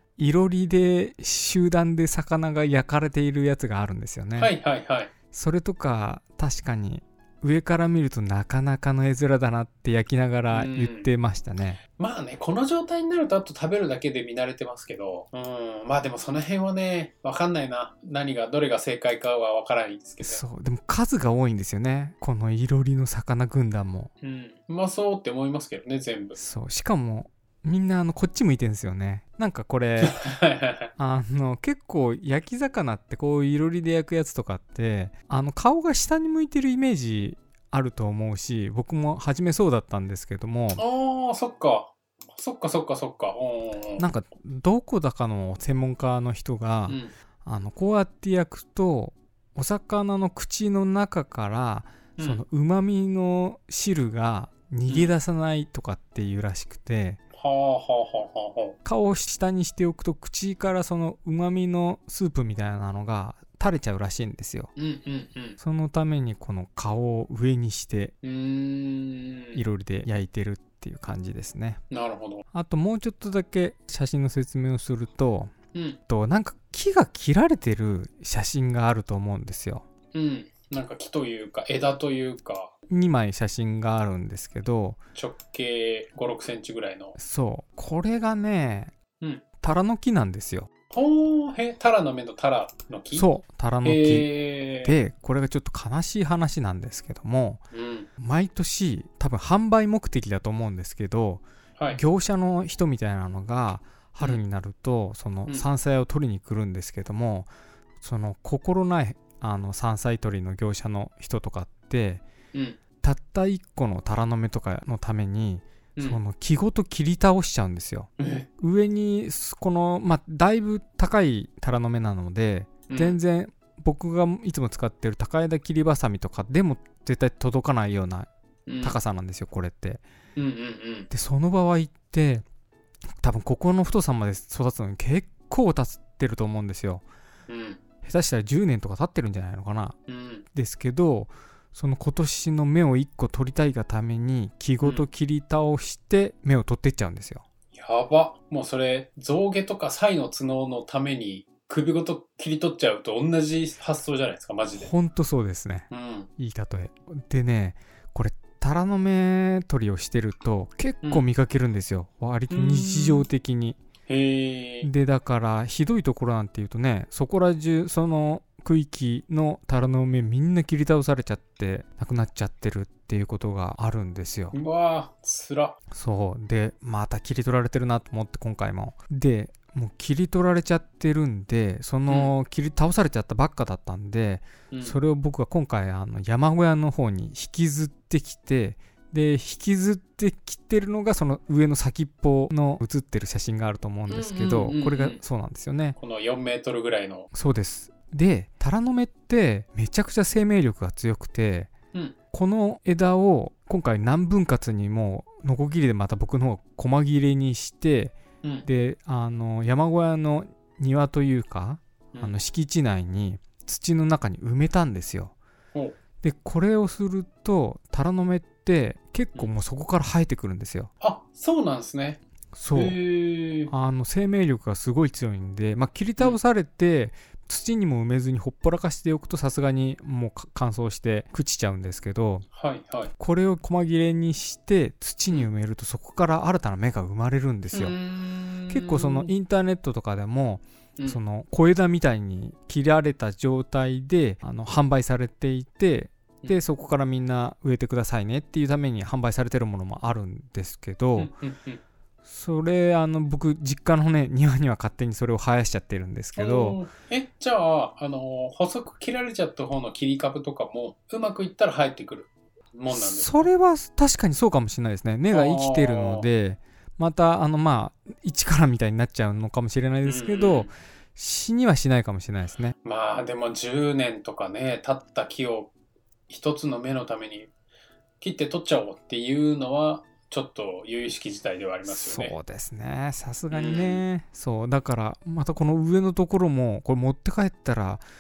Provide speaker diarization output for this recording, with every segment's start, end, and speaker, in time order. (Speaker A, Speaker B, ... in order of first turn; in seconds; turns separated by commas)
Speaker A: 0.2-4.5, Speaker B: 4.4-5.1, Speaker A: 5.3-11.8, Speaker B: 10.5-11.1, Speaker B: 12.0-20.4, Speaker A: 20.2-24.1, Speaker B: 24.2-26.4, Speaker A: 26.4-30.2, Speaker B: 30.0-30.9, Speaker A: 31.0-40.8, Speaker B: 40.8-44.1, Speaker A: 44.0-57.2, Speaker B: 46.9-47.1, Speaker B: 52.2-52.4, Speaker B: 54.9-55.1, Speaker B: 57.3-58.8, Speaker A: 58.8-64.7, Speaker B: 64.8-65.6, Speaker A: 65.6-68.1, Speaker B: 68.2-69.6, Speaker A: 69.5-71.8, Speaker B: 71.9-72.4, Speaker A: 72.5-75.5, Speaker B: 75.7-76.0, Speaker A: 76.1-79.8, Speaker B: 80.1-82.7, Speaker A: 82.9-85.0, Speaker B: 85.1-87.2, Speaker A: 87.2-88.9, Speaker A: 89.6-90.7, Speaker B: 90.9-93.3, Speaker A: 93.1-97.6, Speaker B: 93.8-95.0, Speaker B: 97.7-98.1, Speaker A: 98.2-107.5, Speaker A: 108.0-112.2, Speaker B: 112.5-112.8, Speaker A: 113.0-128.3, Speaker B: 118.2-118.5, Speaker B: 122.9-123.2, Speaker B: 128.7-129.0, Speaker A: 128.8-130.0, Speaker B: 130.3-131.1, Speaker A: 131.1-132.4, Speaker A: 133.2-137.0, Speaker B: 137.5-137.8, Speaker A: 138.0-140.0, Speaker B: 140.1-140.4, Speaker A: 140.5-147.4, Speaker B: 144.8-145.1, Speaker B: 147.8-154.9, Speaker A: 154.7-163.8, Speaker B: 155.9-156.3, Speaker B: 162.5-163.3, Speaker B: 164.1-164.9, Speaker A: 164.8-174.5, Speaker B: 174.5-175.8, Speaker A: 175.9-196.0, Speaker B: 182.1-182.3, Speaker B: 184.7-185.0, Speaker B: 194.1-195.2, Speaker B: 196.0-197.3, Speaker A: 197.3-201.7, Speaker A: 202.3-208.1, Speaker B: 208.4-208.7, Speaker A: 208.7-215.3, Speaker A: 216.2-220.9, Speaker B: 221.0-222.2, Speaker A: 222.5-223.0, Speaker B: 222.7-223.7, Speaker A: 223.7-232.4, Speaker B: 232.5-233.1, Speaker A: 233.2-238.0, Speaker B: 237.7-239.3, Speaker A: 238.7-251.3, Speaker B: 251.2-251.8, Speaker A: 252.2-256.8, Speaker B: 256.4-263.5, Speaker A: 262.9-272.7, Speaker B: 265.3-266.3, Speaker B: 270.0-270.7, Speaker B: 272.8-275.7, Speaker B: 276.3-277.5, Speaker B: 278.2-282.3, Speaker A: 281.9-288.0, Speaker B: 283.5-284.0